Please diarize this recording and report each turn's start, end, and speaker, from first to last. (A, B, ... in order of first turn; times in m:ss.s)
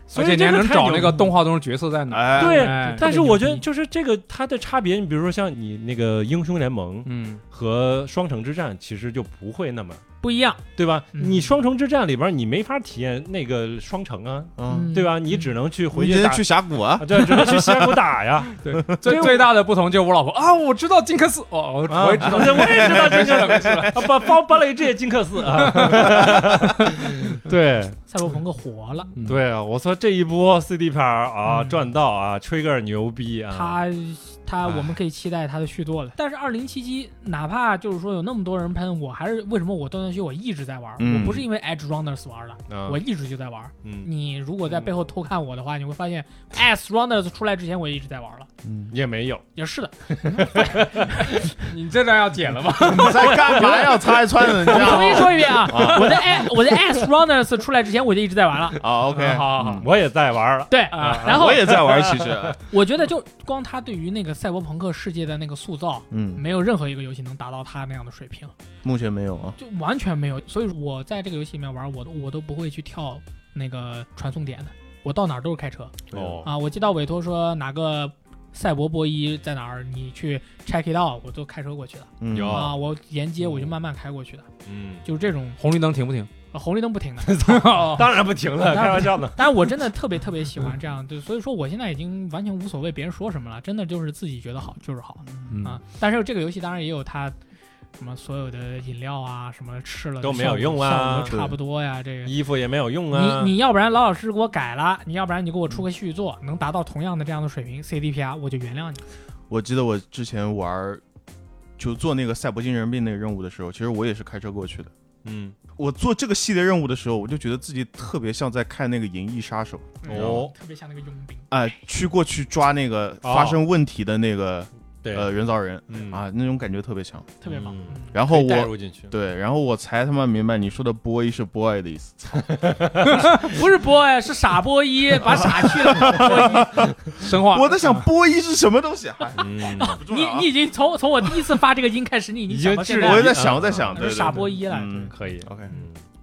0:00.1-0:03.3 A
0:00.1-0:01.2 B
0:02.1-0:02.6 C
0:02.4-0:10.0 B
0:02.4-0:03.6 D
0:07.0-0:07.4 A
0:10.2-0:11.5 D
0:10.8-0:16.4 B
0:14.6-0:14.9 C
0:14.7-0:15.5 D
0:15.9-0:18.1 C
0:17.0-0:19.5 B
0:18.6-0:24.1 A
0:21.9-0:28.0 B
0:22.2-0:23.9 C
0:25.5-0:27.4 A
0:28.1-0:29.1 D
0:29.2-0:29.4 A
0:29.2-0:33.8 B
0:31.4-0:31.8 D
0:33.5-0:48.5 D
0:34.6-0:34.9 B
0:41.0-0:41.4 C
0:42.7-0:43.0 B
0:43.8-0:44.1 B
0:48.6-0:48.9 C
0:48.9-0:49.4 B
0:49.6-0:51.5 D
0:50.1-0:51.3 B
0:51.7-0:53.8 A
0:52.8-0:56.2 C
0:54.6-0:58.8 D
0:58.8-0:59.9 C
0:59.1-0:59.9 A
0:59.6-1:02.5 B
1:00.7-1:01.9 D
1:00.9-1:01.4 A
1:01.1-1:02.6 C
1:02.7-1:08.5 D
1:06.1-1:06.4 C
1:08.8-1:09.6 C
1:09.6-1:24.5 D
1:16.1-1:16.4 C
1:16.1-1:16.5 B
1:22.2-1:22.7 C
1:22.3-1:22.8 B
1:24.7-1:25.0 B
1:25.0-1:25.6 D
1:25.6-1:26.3 A
1:26.5-1:28.0 D
1:27.3-1:29.7 B
1:27.4-1:28.2 A
1:28.6-1:37.4 D
1:35.5-1:35.8 A
1:38.0-1:42.4 D
1:40.2-1:41.4 B
1:41.3-1:41.6 C
1:42.2-1:43.5 B
1:43.1-1:49.0 D
1:49.5-1:51.0 C
1:51.8-1:54.9 C
1:55.2-1:55.6 B
1:55.8-2:00.4 C
2:00.0-2:01.7 D
2:00.1-2:00.5 B
2:01.5-2:07.4 C
2:03.2-2:03.6 B
2:05.0-2:05.3 B
2:05.9-2:06.2 B
2:07.4-2:08.2 D
2:07.5-2:09.1 B
2:08.1-2:12.5 C
2:12.4-2:13.2 B
2:13.1-2:13.6 A
2:13.4-2:16.9 D
2:15.3-2:20.5 C
2:17.2-2:18.1 A
2:19.4-2:20.0 B
2:19.8-2:25.8 D
2:22.5-2:24.5 B
2:23.0-2:25.7 C
2:25.1-2:26.0 B